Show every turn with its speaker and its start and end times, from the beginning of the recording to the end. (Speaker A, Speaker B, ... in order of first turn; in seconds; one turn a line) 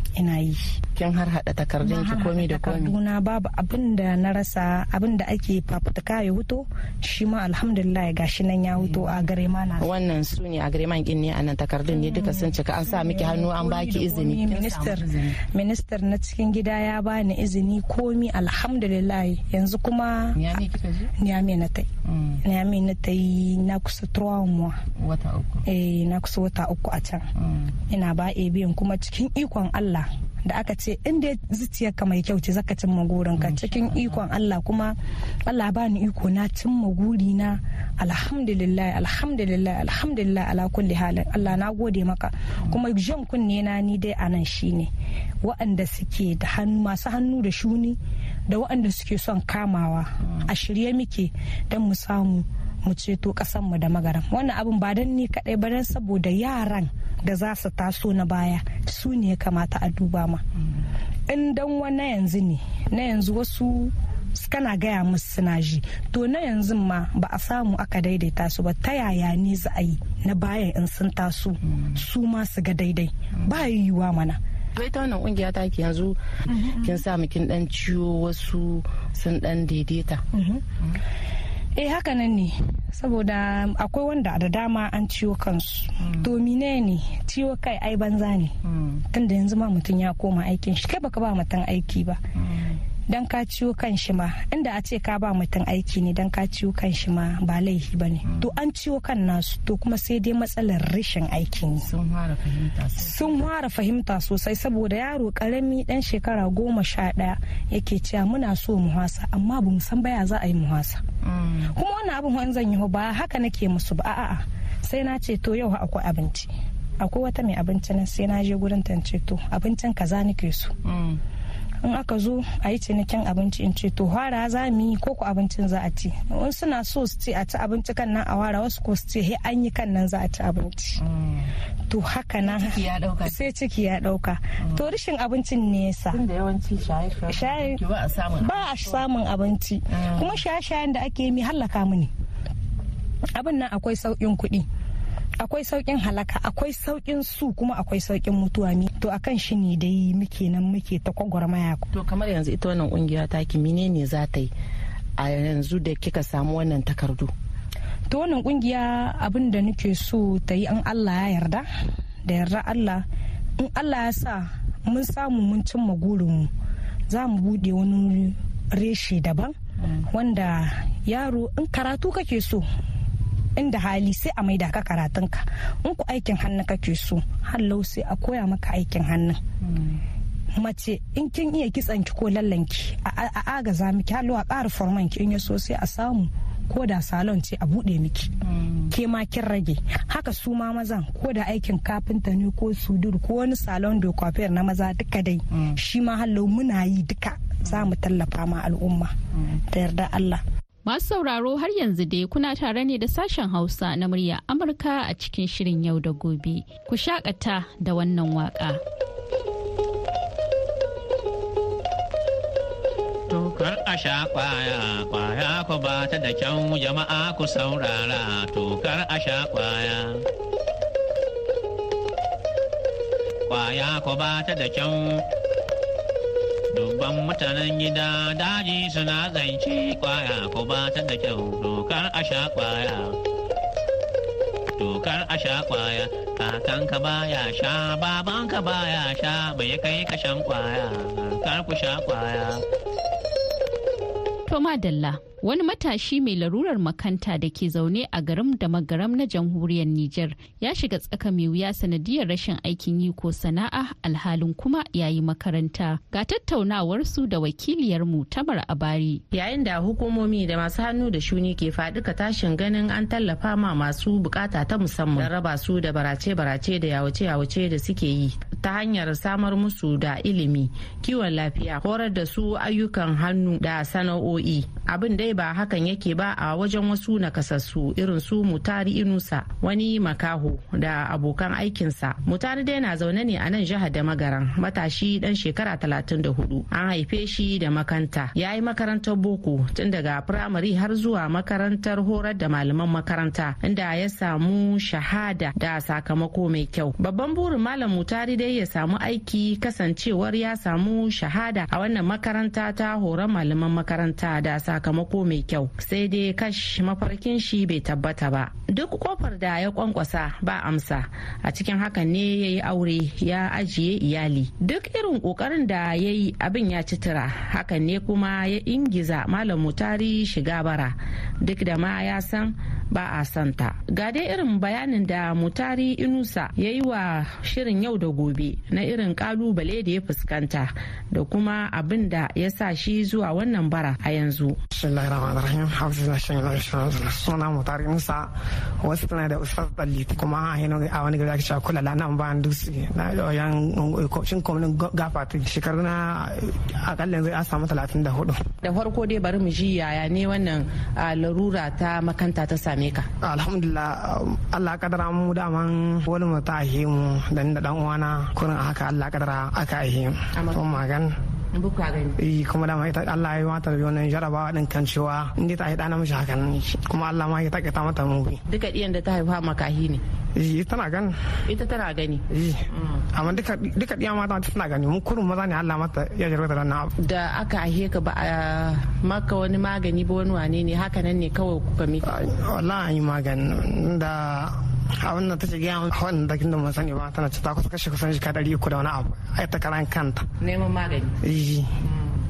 Speaker A: 0.2-0.8
Speaker B: 1.0-3.0
Speaker A: 1.8-9.9
Speaker B: 8.8-9.2
Speaker B: 9.8-15.4
Speaker A: 11.9-20.4
Speaker B: 20.4-21.1
Speaker A: 21.2-21.9
Speaker B: 22.1-22.4
Speaker A: 22.4-24.8
Speaker B: 25.0-25.6
Speaker A: 25.7-27.3
Speaker B: 27.4-27.7
Speaker A: 27.9-44.9
Speaker B: 33.4-34.2
Speaker A: 45.4-60.4
Speaker A: 61.3-74.4
Speaker B: 74.8-80.2
Speaker A: 76.5-77.0
Speaker A: 80.3-80.6
Speaker A: 81.8-88.5
Speaker B: 86.0-86.3
Speaker B: 88.7-89.0
Speaker A: 89.1-92.2
Speaker B: 92.4-92.8
Speaker A: 93.1-101.9
Speaker B: 101.8-103.4
Speaker A: 103.0-111.0
Speaker B: 111.2-111.7
Speaker A: 111.7-120.8
Speaker B: 120.8-121.2
Speaker A: 121.8-131.0
Speaker B: 131.0-131.5
Speaker A: 131.9-136.2
Speaker B: 132.4-133.4
Speaker B: 136.1-139.0
Speaker A: 137.3-137.8
Speaker A: 138.4-142.1
Speaker B: 139.9-140.4
Speaker A: 143.3-144.7
Speaker A: 145.4-151.9
Speaker B: 151.9-154.5
Speaker B: 155.2-157.3
Speaker A: 158.1-161.7
Speaker A: 162.2-163.0
Speaker A: 163.6-166.5
Speaker A: 167.1-172.7
Speaker A: 173.6-179.4
Speaker B: 179.6-180.0
Speaker A: 180.6-188.3
Speaker B: 188.4-188.9
Speaker A: 188.9-199.1
Speaker A: 199.7-200.4
Speaker C: 200.9-208.8
Speaker D: 213.3-220.2
Speaker D: 223.5-225.2
Speaker D: 226.7-233.2
Speaker D: 234.8-242.6
Speaker C: 244.5-259.2
Speaker B: 259.3-334.6
Speaker E: 334.7-348.4
Speaker B: 348.6-353.1
Speaker E: 353.2-361.2
Speaker B: 360.4-360.8
Speaker B: 361.5-362.2
Speaker E: 362.2-368.4
Speaker B: 368.5-370.0
Speaker E: 370.4-371.2
Speaker B: 371.4-373.1
Speaker E: 372.3-376.9
Speaker B: 377.0-382.2
Speaker E: 382.0-390.3
Speaker B: 390.4-391.2
Speaker E: 391.2-391.7
Speaker B: 391.8-392.1